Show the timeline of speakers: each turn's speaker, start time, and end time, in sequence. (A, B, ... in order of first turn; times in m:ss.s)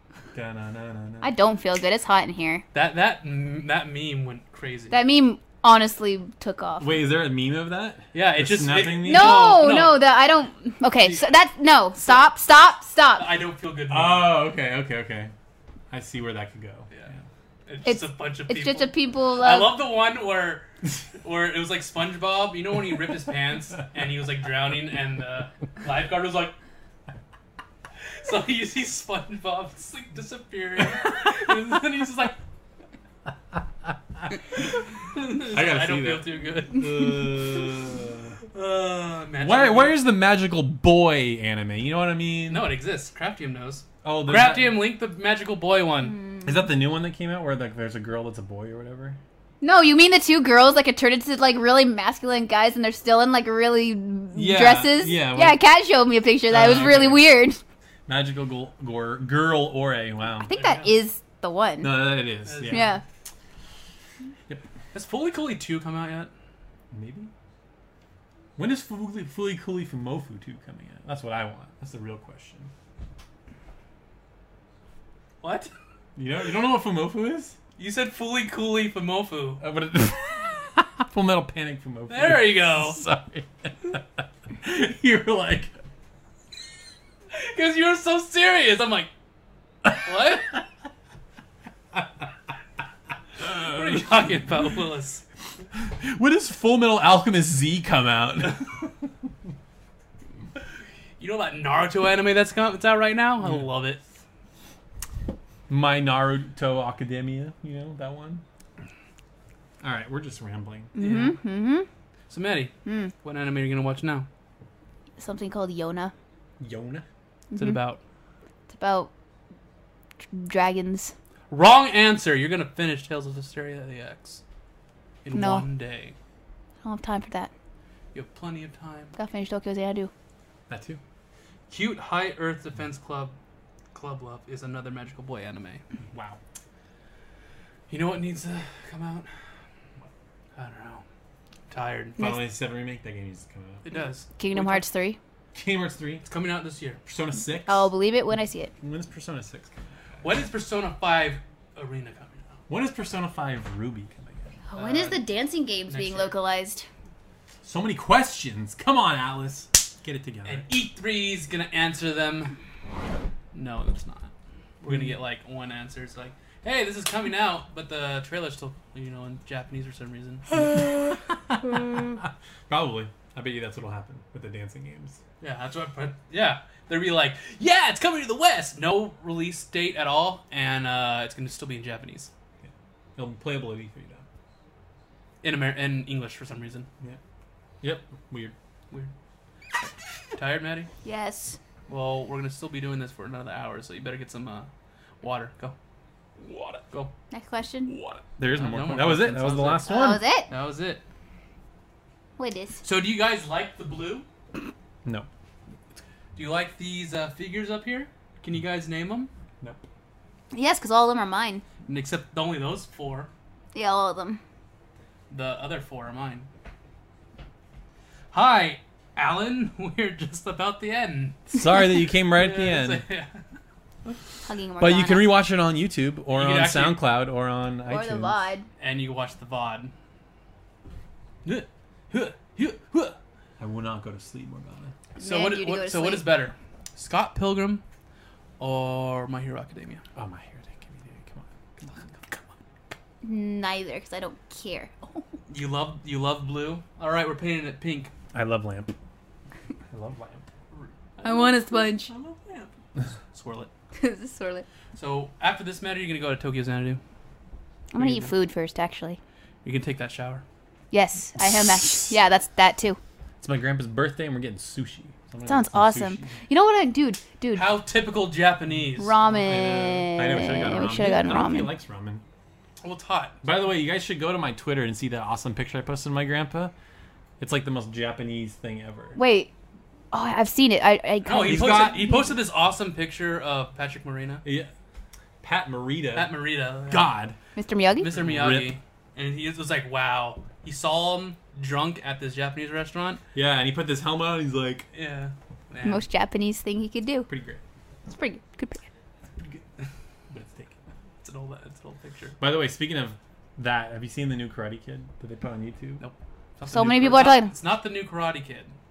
0:00.3-0:01.3 A
0:01.2-0:02.6 B
0:02.7-0:05.0 C
0:04.9-0:07.0 B
0:06.8-0:09.6 A
0:08.1-0:10.0 C
0:09.0-0:13.3 B
0:13.2-0:14.3 C
0:13.9-0:15.3 A
0:15.9-0:16.9 A
0:17.7-0:20.7 C
0:17.8-0:19.7 B
0:21.2-0:26.6 C
0:28.2-0:32.4 C
0:35.1-0:37.5 C
0:35.5-0:38.4 A
0:38.5-0:40.0 C
0:39.4-0:42.7 A
0:42.5-0:46.2 C
0:44.0-0:44.8 A
0:46.4-0:49.2 A
0:49.6-0:57.6 B
0:54.3-0:55.6 A
0:56.5-0:57.3 A
0:58.1-1:00.6 A
1:00.4-1:02.1 B
1:00.5-1:00.9 C
1:01.8-1:02.9 A
1:02.5-1:03.0 C
1:02.7-1:03.0 B
1:04.9-1:06.3 C
1:06.9-1:07.3 A
1:08.6-1:12.7 A
1:15.4-1:15.7 C
1:16.2-1:17.6 A
1:17.8-1:19.6 C
1:19.6-1:25.7 A
1:22.1-1:23.0 C
1:27.3-1:29.1 C
1:29.9-1:30.5 C
1:33.4-1:35.2 C
1:35.8-1:38.9 A
1:41.2-1:44.0 C
1:45.7-1:48.4 A
1:49.8-1:50.9 A
1:51.0-1:51.9 B
1:51.0-1:51.4 C
1:52.3-1:54.3 C
1:52.8-1:53.1 B
1:55.2-1:56.1 B
1:56.6-1:57.0 A
1:57.5-1:57.8 B
1:57.6-1:58.0 C
1:58.7-1:59.1 B
2:00.3-2:01.1 B
2:01.5-2:04.4 C
2:05.2-2:06.2 C
2:05.3-2:05.7 B
2:06.8-2:07.5 B
2:08.1-2:09.2 C
2:09.2-2:10.1 B
2:10.7-2:11.0 A
2:11.7-2:13.4 C
2:13.9-2:15.8 C
2:16.1-2:16.4 A
2:17.9-2:19.3 C
2:20.6-2:21.0 C
2:21.7-2:22.3 C
2:22.2-2:23.8 A
2:23.8-2:24.8 C
2:24.4-2:25.2 B
2:25.6-2:26.2 A
2:26.2-2:27.0 C
2:27.1-2:27.9 A
2:27.7-2:28.7 B
2:28.8-2:29.8 A
2:30.2-2:32.5 C
2:32.7-2:34.6 A
2:34.7-2:36.9 B
2:34.8-2:35.2 C
2:35.9-2:36.4 C
2:37.6-2:40.7 A
2:40.5-2:42.6 C
2:43.5-2:50.5 C
2:44.9-2:45.2 A
2:50.5-2:55.2 A
2:55.4-3:02.3 C
3:02.6-3:04.2 A
3:05.4-3:06.9 C
3:07.8-3:08.5 A
3:09.8-3:10.9 C
3:11.0-3:11.6 B
3:11.9-3:14.7 C
3:15.2-3:15.8 C
3:16.4-3:16.8 A
3:17.3-3:17.9 B
3:17.9-3:21.0 C
3:18.4-3:20.3 A
3:19.9-3:20.5 B
3:22.4-3:22.8 B
3:22.8-3:24.3 C
3:26.4-3:29.3 C
3:30.5-3:31.6 B
3:31.9-3:33.3 C
3:33.7-3:34.4 B
3:35.3-3:36.5 C
3:38.3-3:41.6 C
3:41.5-3:43.0 A
3:42.3-3:43.4 C
3:44.5-3:45.3 B
3:44.8-3:48.4 A
3:46.4-3:47.0 C
3:47.9-3:48.7 B
3:48.8-3:49.9 C
3:51.4-3:53.2 C
3:53.6-3:54.9 A
3:55.2-3:57.8 C
3:55.2-3:56.3 B
3:58.6-4:00.0 C
4:00.2-4:01.5 A
4:01.8-4:02.9 C
4:03.2-4:05.2 B
4:05.5-4:08.1 C
4:08.3-4:08.9 A
4:09.9-4:10.4 A
4:10.7-4:12.7 C
4:11.2-4:12.1 B
4:13.3-4:13.7 C
4:14.0-4:14.6 B
4:15.0-4:17.0 C
4:17.9-4:19.2 B
4:18.0-4:18.3 C
4:19.6-4:20.4 C
4:20.9-4:23.0 B
4:21.8-4:22.1 A
4:23.4-4:26.4 A
4:25.5-4:27.8 B
4:27.6-4:29.2 C
4:29.0-4:31.8 B
4:29.4-4:32.2 A
4:32.8-4:33.4 C
4:33.4-4:36.7 A
4:37.4-4:39.2 A
4:39.2-4:39.5 B
4:40.1-4:42.3 B
4:41.2-4:44.4 C
4:41.4-4:42.1 A
4:44.4-4:44.7 A
4:45.4-4:47.4 A
4:46.2-4:47.1 C
4:47.6-4:48.1 B
4:48.0-4:53.2 C
4:48.1-4:48.8 A
4:53.3-4:54.9 A
4:54.9-4:56.0 C
4:55.8-4:57.3 B
4:57.3-4:57.6 A
4:58.1-4:58.8 B
5:00.3-5:00.8 A
5:01.2-5:02.4 C
5:02.4-5:06.0 A
5:06.0-5:08.8 C
5:06.7-5:07.5 B